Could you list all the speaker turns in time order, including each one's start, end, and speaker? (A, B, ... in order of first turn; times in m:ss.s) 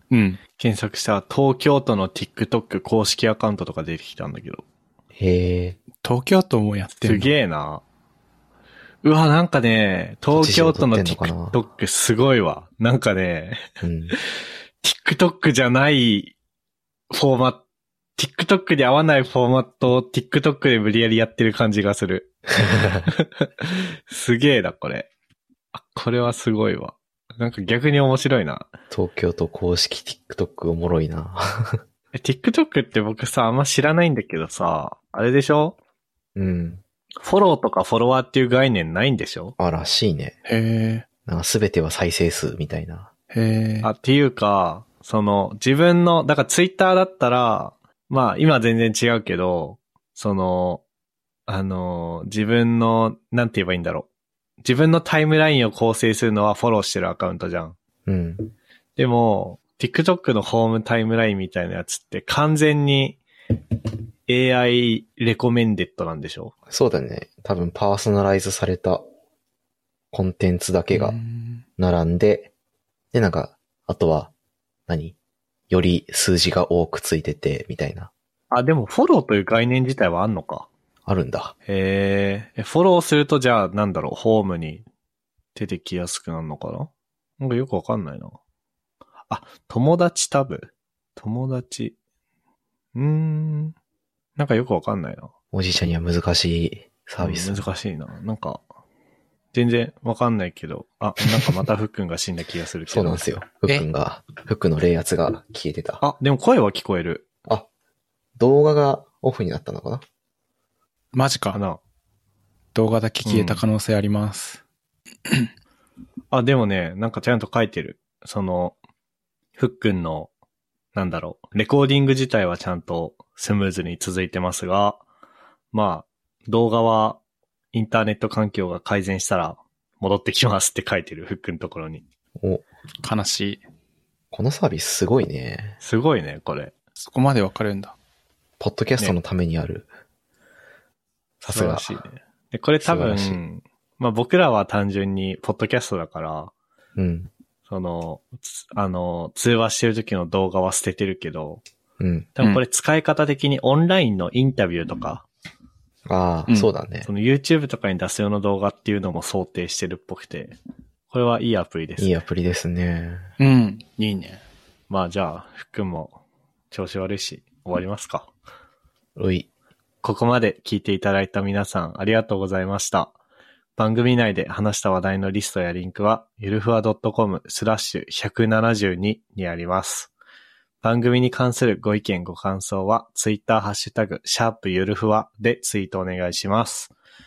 0:00.1-0:00.4 A
0:00.6-0:04.6 B
0:05.1-0:05.8 C
0:06.0-0:07.3 A
0:07.0-0:07.8 B
0:09.0-0:13.6 B
0:10.3-0:11.6 C
0:13.8-0:14.1 C
0:14.8-0:16.3 B
0:17.1-0:17.6 B
0:18.2-0:25.1 B
0:22.6-0:23.1 C
0:25.7-0:28.7 B
0:28.9-0:31.8 C
0:32.1-0:35.8 B
0:36.4-0:36.8 C
0:37.2-0:39.5 B
0:39.6-0:40.3 C
0:40.4-0:41.0 A
0:41.2-0:43.1 C
0:43.3-0:43.9 A
0:43.8-0:50.8 B
0:51.5-0:54.1 B
0:54.6-0:57.8 B
0:58.0-0:58.5 C
0:59.0-1:03.2 B
1:04.3-1:06.5 B
1:06.7-1:09.0 C
1:10.1-1:11.2 C
1:10.9-1:11.6 A
1:11.8-1:12.5 C
1:13.1-1:14.3 C
1:14.9-1:15.1 C
1:15.7-1:18.1 C
1:18.5-1:20.7 B
1:21.0-1:21.5 C
1:21.7-1:24.8 B
1:25.5-1:28.4 B
1:29.3-1:32.0 B
1:32.9-1:33.7 B
1:34.4-1:35.3 B
1:35.5-1:37.7 C
1:37.2-1:38.6 B
1:39.5-1:43.2 B
1:42.9-1:46.0 C
1:46.0-1:47.2 B
1:48.4-1:50.0 C
1:51.1-1:51.6 A
1:51.5-1:51.8 B
1:52.7-1:54.6 A
1:53.2-1:53.6 B
1:56.3-1:58.8 B
1:59.6-2:00.3 B
2:00.9-2:05.0 B
2:05.7-2:07.2 B
2:07.7-2:12.0 B
2:12.4-2:12.6 C
2:13.0-2:13.6 A
2:14.3-2:15.8 C
2:15.8-2:16.7 B
2:17.0-2:17.9 A
2:18.6-2:19.9 C
2:21.4-2:21.9 C
2:21.5-2:26.5 B
2:22.8-2:23.4 C
2:27.0-2:27.3 C
2:27.6-2:31.6 B
2:32.0-2:32.3 C
2:32.4-2:35.2 B
2:36.1-2:37.1 C
2:37.0-2:40.6 B
2:41.1-2:42.1 B
2:42.0-2:43.3 C
2:43.4-2:44.4 A
2:44.9-2:46.2 B
2:46.7-2:48.3 B
2:49.2-2:49.5 C
2:50.0-2:53.1 B
2:53.8-3:00.1 B
3:00.8-3:06.9 B